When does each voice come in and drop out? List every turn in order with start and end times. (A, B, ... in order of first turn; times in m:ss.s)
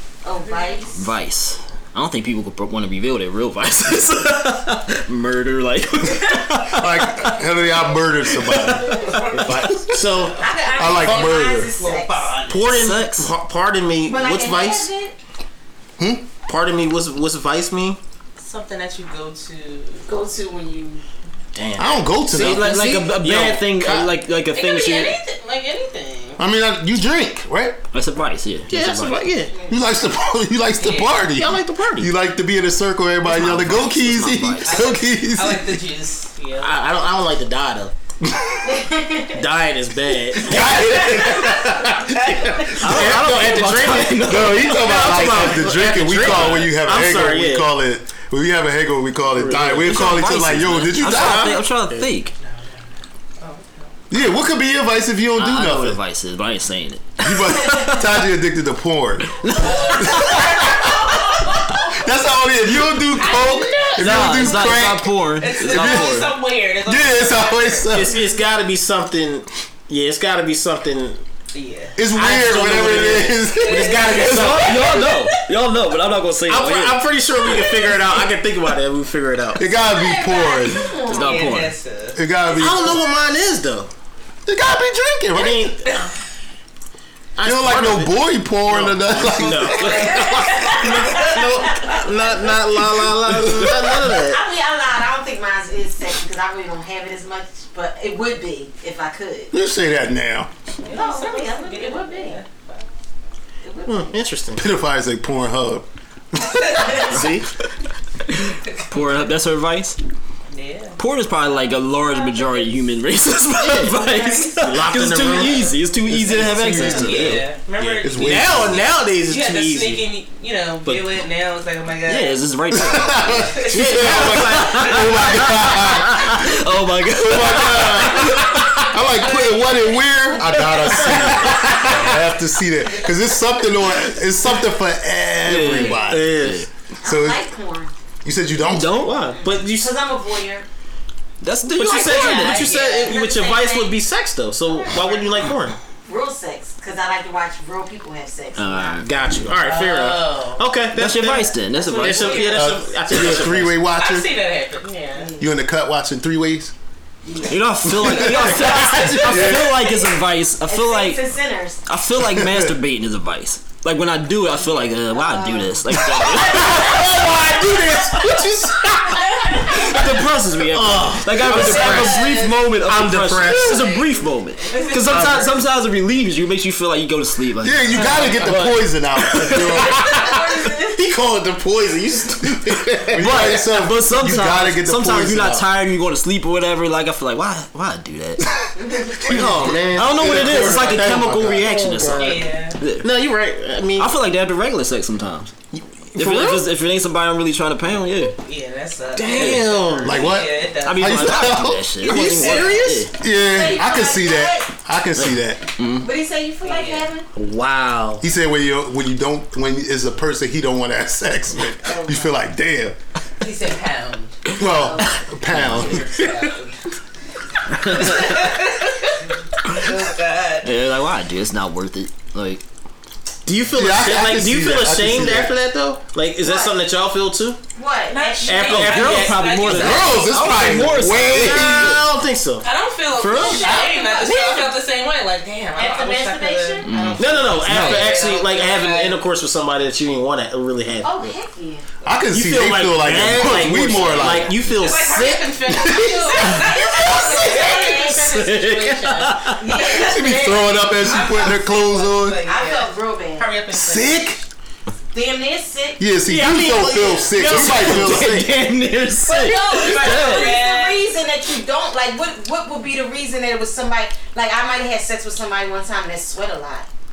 0:00.2-0:01.1 A
0:00.4-0:01.0 B
0:01.0-0:07.4 C
0:06.7-0:08.9 D
0:08.3-0:09.1 C
0:08.9-0:09.2 A
0:09.0-0:09.6 B
0:09.3-0:10.4 E
0:10.2-0:12.7 B
0:10.4-0:12.4 A
0:10.8-0:11.7 D
0:12.5-0:14.9 E
0:12.6-0:13.3 C
0:14.0-0:15.2 A
0:16.0-0:16.3 D
0:16.5-0:18.0 E
0:18.4-0:20.1 B
0:20.1-0:21.0 A
0:21.5-0:24.1 E
0:21.8-0:23.0 D
0:22.3-0:25.2 C
0:24.5-0:26.4 B
0:26.4-0:27.8 D
0:27.9-0:29.3 C
0:28.7-0:29.5 E
0:29.5-0:29.8 A
0:29.7-0:35.8 D
0:30.8-0:31.2 B
0:31.3-0:32.1 E
0:33.2-0:34.9 C
0:34.6-0:36.8 B
0:36.6-0:37.9 E
0:38.6-0:39.4 A
0:39.3-0:47.7 E
0:40.4-0:42.0 D
0:40.8-0:42.7 B
0:42.8-0:45.6 C
0:42.8-0:43.4 D
0:44.2-0:51.6 D
0:46.2-0:46.7 C
0:49.3-0:50.0 E
0:49.7-0:52.3 C
0:51.0-0:52.1 E
0:52.5-0:52.8 B
0:53.4-0:53.9 B
0:54.1-0:56.0 D
0:55.4-0:58.2 C
0:57.2-0:59.4 D
0:59.3-1:00.5 C
0:59.6-1:02.1 B
1:00.0-1:01.1 D
1:02.0-1:06.2 D
1:03.1-1:04.8 B
1:04.0-1:06.4 C
1:05.4-1:08.1 B
1:06.9-1:08.2 D
1:07.9-1:11.2 E
1:11.5-1:12.1 B
1:12.0-1:14.6 D
1:12.2-1:14.8 E
1:13.5-1:15.5 B
1:14.1-1:17.2 C
1:16.5-1:19.7 E
1:19.6-1:20.9 D
1:19.8-1:21.5 A
1:21.1-1:22.2 B
1:21.1-1:21.8 C
1:22.2-1:23.0 D
1:22.6-1:23.9 E
1:24.5-1:25.9 D
1:25.3-1:26.0 E
1:27.4-1:34.4 E
1:27.4-1:30.1 D
1:29.6-1:32.5 B
1:29.9-1:30.4 A
1:33.4-1:33.9 C
1:34.0-1:39.5 A
1:39.5-1:40.5 D
1:40.8-1:42.9 B
1:40.9-1:42.4 A
1:43.6-1:44.2 A
1:43.9-1:44.7 E
1:44.6-1:45.9 D
1:46.4-1:46.8 D
1:46.4-1:47.2 B
1:47.0-1:47.5 E
1:48.3-1:50.0 C
1:50.5-1:51.0 B
1:51.0-1:57.5 C
1:51.9-1:52.8 B
1:53.6-1:53.9 E
1:54.1-1:54.5 A
1:54.6-1:55.7 E
1:56.1-1:57.4 D
1:56.3-1:57.0 E
1:56.7-1:58.6 B
1:57.8-2:00.1 E
1:58.0-1:58.9 D
1:59.1-2:02.4 B
2:02.1-2:08.9 C
2:02.7-2:06.5 D
2:03.5-2:03.8 B
2:03.7-2:05.2 E
2:07.2-2:16.3 D
2:09.1-2:10.1 B
2:10.6-2:12.0 C
2:15.5-2:16.7 C
2:15.9-2:16.7 E
2:17.0-2:17.9 A
2:17.0-2:17.4 D
2:18.2-2:19.1 D
2:18.6-2:19.3 C
2:19.0-2:19.9 E
2:19.4-2:20.7 A
2:21.4-2:22.7 C
2:21.7-2:25.8 E
2:21.8-2:23.2 B
2:22.5-2:24.0 A
2:24.7-2:25.2 A
2:26.1-2:29.0 A
2:28.6-2:29.1 C
2:29.0-2:33.8 E
2:29.6-2:30.7 B
2:30.9-2:32.5 C
2:31.8-2:32.7 A
2:32.1-2:32.6 B
2:32.5-2:34.3 D
2:33.9-2:35.3 B
2:35.2-2:35.5 A
2:35.4-2:36.7 D
2:37.2-2:37.6 A
2:37.5-2:41.2 C
2:37.9-2:38.7 D
2:38.5-2:39.1 E
2:39.2-2:39.7 D
2:39.6-2:41.8 A
2:41.9-2:47.1 C
2:42.2-2:42.8 D
2:44.8-2:46.1 A
2:46.2-2:49.1 E
2:49.6-3:00.2 C
2:49.7-2:50.0 E
2:50.7-2:53.9 E
2:51.5-2:52.5 A
2:53.7-2:54.0 A
2:54.7-2:55.6 A
2:55.1-2:55.5 E
2:57.6-3:00.3 D
3:00.0-3:01.0 A
3:00.8-3:03.6 E
3:03.1-3:05.7 D
3:03.2-3:08.5 C
3:08.6-3:11.1 D
3:08.8-3:09.1 A
3:09.2-3:12.5 E
3:09.4-3:13.1 C
3:12.1-3:12.8 B
3:13.0-3:14.1 E
3:14.0-3:15.5 C
3:15.7-3:16.6 E
3:16.2-3:18.4 C
3:18.4-3:21.3 B
3:19.2-3:20.3 E
3:19.3-3:19.7 C
3:20.0-3:21.9 D
3:20.8-3:23.2 C
3:22.0-3:23.1 E
3:22.2-3:22.8 B
3:23.2-3:25.6 D
3:23.4-3:24.7 A
3:25.2-3:26.1 C
3:26.0-3:27.3 A
3:26.6-3:27.1 B
3:27.4-3:28.2 C
3:28.2-3:33.0 D
3:31.8-3:32.3 A
3:33.4-3:34.4 B
3:34.6-3:36.0 D
3:34.7-3:35.1 A
3:35.5-3:36.0 C
3:35.6-3:36.8 B
3:37.7-3:38.4 C
3:37.8-3:40.7 B
3:40.6-3:42.6 C
3:43.5-3:47.6 E
3:43.7-3:45.5 D
3:46.4-3:46.8 A
3:47.8-3:48.9 A
3:48.1-3:50.3 B
3:48.5-3:49.9 E
3:48.7-3:52.0 C
3:49.7-3:52.0 D
3:51.0-3:53.8 E
3:52.6-3:59.2 B
3:53.3-3:54.8 A
3:55.8-3:57.2 A
3:56.8-3:58.2 C
3:57.2-4:01.4 E
4:01.0-4:01.9 A
4:02.0-4:04.5 D
4:02.3-4:05.5 E
4:03.0-4:04.7 C
4:04.7-4:14.4 B
4:05.7-4:06.7 D
4:05.8-4:08.5 A
4:08.4-4:09.1 E
4:09.5-4:11.4 A
4:09.9-4:12.4 D
4:12.4-4:13.5 A
4:13.7-4:14.4 D
4:15.1-4:16.0 A
4:16.0-4:18.6 D
4:16.3-4:18.4 E
4:17.4-4:20.6 C
4:19.2-4:26.9 A
4:19.4-4:21.1 B